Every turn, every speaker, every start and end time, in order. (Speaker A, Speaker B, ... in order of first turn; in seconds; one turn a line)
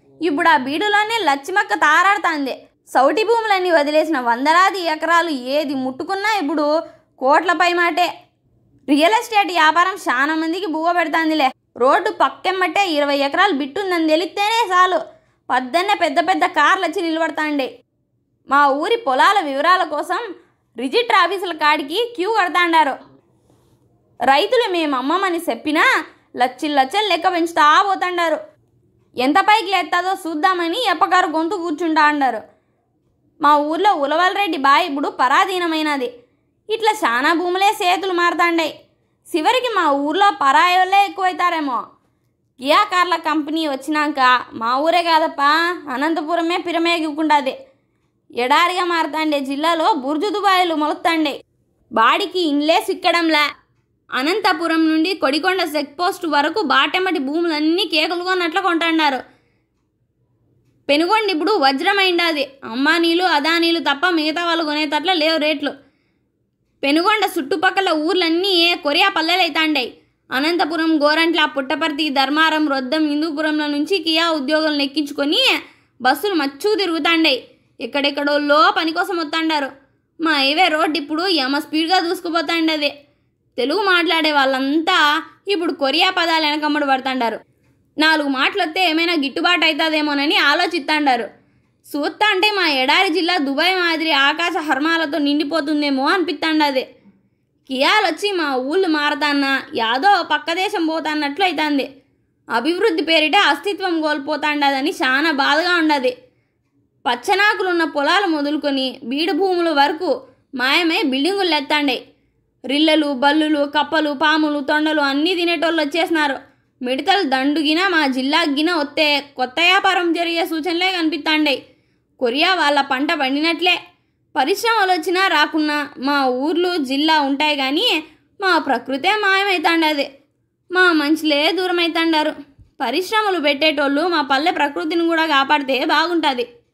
Speaker A: 0.2-6.7
Speaker A: 7.2-8.1
Speaker A: 8.9-15.0
Speaker A: 15.5-17.7
Speaker A: 18.5-20.3
Speaker A: 20.8-22.9
Speaker A: 24.3-25.9
Speaker A: 26.4-28.4
Speaker A: 29.2-32.4
Speaker A: 33.4-36.1
Speaker A: 36.7-38.7
Speaker A: 39.3-41.8
Speaker A: 42.7-47.5
Speaker A: 48.4-51.4
Speaker A: 52.0-53.4
Speaker A: 54.2-59.2
Speaker A: 60.9-65.7
Speaker A: 66.8-75.5
Speaker A: 76.0-79.7
Speaker A: 80.2-82.9
Speaker A: 83.6-87.4
Speaker A: 88.0-91.3
Speaker A: 91.9-96.8
Speaker A: 97.7-101.9
Speaker A: 102.5-106.1
Speaker A: 107.1-112.0
Speaker A: 112.7-121.6
Speaker A: 122.2-123.8
Speaker A: 124.4-127.9
Speaker A: 128.4-130.1
Speaker A: 130.7-136.5